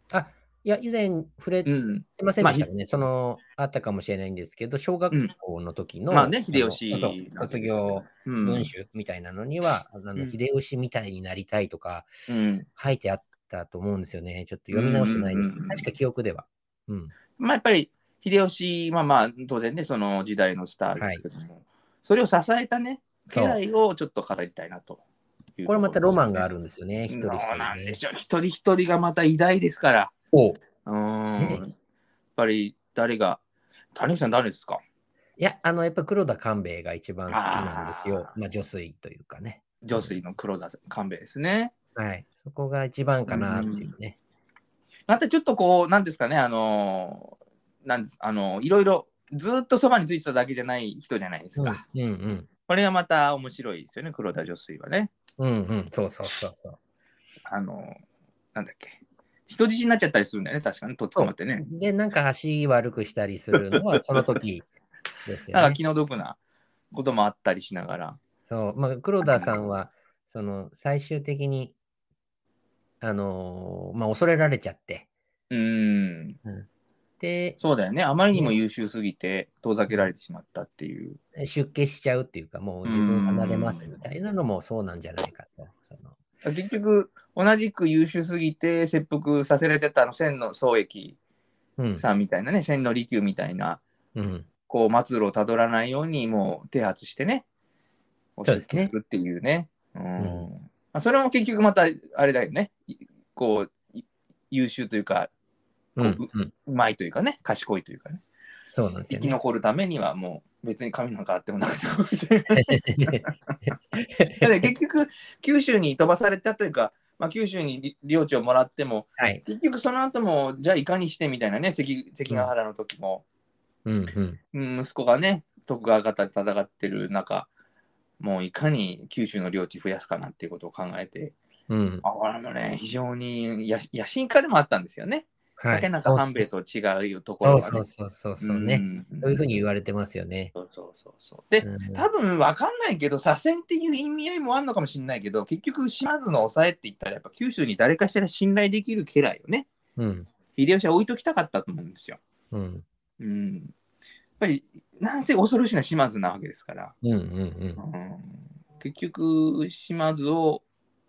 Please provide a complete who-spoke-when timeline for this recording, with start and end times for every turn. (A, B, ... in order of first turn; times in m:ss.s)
0:00.1-0:12.1 A
0:01.6-0:02.7 B
0:06.1-0:08.7 B
0:12.3-0:12.6 B
0:12.7-0:17.1 A
0:14.7-0:15.9 B
0:17.4-0:25.0 B
0:21.0-0:21.2 A
0:23.3-0:23.6 A
0:25.6-0:26.4 B
0:25.7-0:28.0 A
0:27.1-0:30.1 B
0:30.3-0:30.6 A
0:30.8-0:31.7 B
0:32.4-0:33.4 B
0:33.9-0:34.8 B
0:35.4-0:40.2 A
0:37.3-0:38.3 B
0:39.8-0:41.7 B
0:42.0-0:44.2 A
0:43.3-0:43.9 B
0:45.1-0:51.8 B
0:51.6-0:52.5 A
0:52.7-0:55.1 B
0:55.4-0:56.8 A
0:57.5-0:58.0 B
0:58.5-1:01.6 B
1:01.1-1:04.6 A
1:03.5-1:04.3 B
1:05.2-1:05.8 A
1:05.5-1:06.4 B
1:06.9-1:08.2 B
1:08.5-1:11.8 A
1:09.2-1:09.6 B
1:13.0-1:15.1 A
1:15.5-1:16.4 B
1:17.2-1:17.6 A
1:17.6-1:21.2 B
1:21.4-1:26.2 A
1:22.8-1:24.0 B
1:26.4-1:31.2 B
1:31.8-1:32.0 A
1:32.0-1:33.8 B
1:34.1-1:34.5 A
1:34.7-1:37.4 B
1:38.4-1:45.3 B
1:38.4-1:38.9 A
1:40.2-1:40.5 A
1:46.0-1:46.5 A
1:46.0-1:48.2 B
1:48.7-1:49.4 A
1:49.1-1:53.3 B
1:52.5-1:54.5 A
1:54.4-2:03.2 B
1:59.2-1:59.4 A
2:03.8-2:04.4 A
2:04.5-2:07.5 B
2:08.2-2:11.3 B
2:11.7-2:12.0 A
2:12.0-2:17.9 B
2:15.6-2:16.5 A
2:17.4-2:20.5 A
2:18.4-2:19.5 B
2:20.5-2:29.7 B
2:21.6-2:22.0 A
2:30.0-2:30.3 A
2:30.5-2:32.2 B
2:32.5-2:32.8 A
2:33.2-2:33.7 B
2:34.4-2:36.9 B
2:37.0-2:37.8 A
2:37.8-2:40.6 B